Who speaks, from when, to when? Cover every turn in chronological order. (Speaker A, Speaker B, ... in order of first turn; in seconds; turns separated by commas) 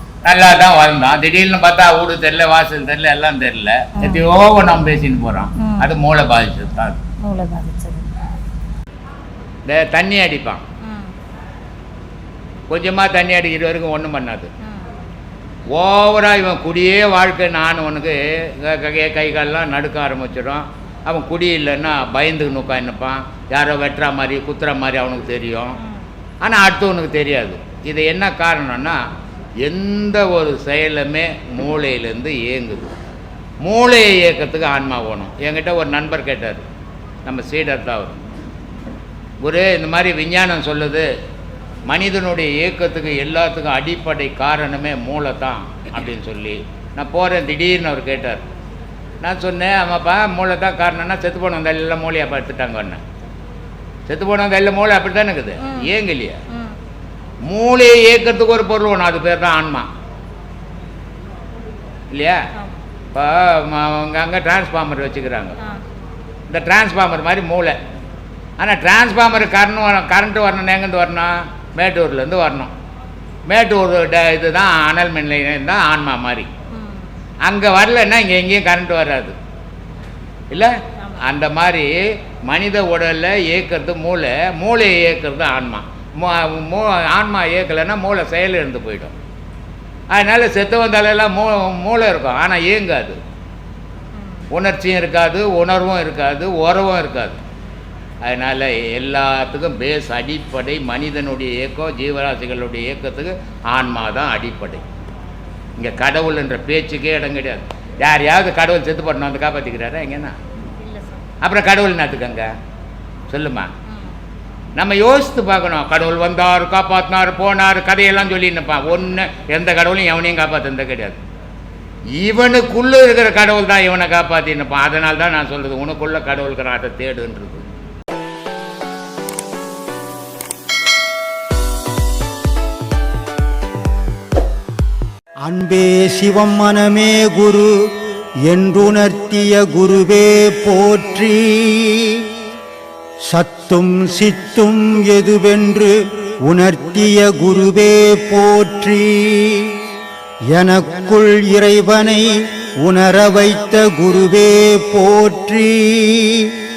Speaker A: 0.2-7.0, Speaker B: 4.0-4.2, Speaker B: 5.6-5.9, Speaker B: 7.2-8.1, Speaker A: 9.7-10.6, Speaker B: 10.8-11.1, Speaker A: 12.7-14.5, Speaker B: 14.6-14.9, Speaker A: 15.7-25.8, Speaker B: 25.8-26.1, Speaker A: 26.4-29.0, Speaker A: 29.6-32.9, Speaker A: 33.6-36.6, Speaker A: 37.3-38.3, Speaker A: 39.4-41.1, Speaker A: 41.9-48.4, Speaker A: 49.2-53.0, Speaker A: 54.1-56.4, Speaker B: 55.6-55.9, Speaker B: 56.5-56.8, Speaker A: 57.5-59.9, Speaker A: 62.1-62.4, Speaker A: 63.1-65.6, Speaker A: 66.5-67.8, Speaker A: 68.6-72.7, Speaker A: 73.5-76.5, Speaker B: 76.7-77.1, Speaker A: 77.5-79.4, Speaker A: 80.5-89.2, Speaker A: 90.1-93.2, Speaker B: 94.2-94.5, Speaker A: 94.5-97.4, Speaker A: 98.2-104.8, Speaker A: 105.8-110.4, Speaker B: 110.7-111.2, Speaker A: 111.4-112.5, Speaker A: 113.3-113.7, Speaker B: 113.9-114.2, Speaker A: 114.8-121.2, Speaker A: 122.2-127.7, Speaker C: 135.4-142.3, Speaker C: 143.3-149.8, Speaker C: 150.5-156.6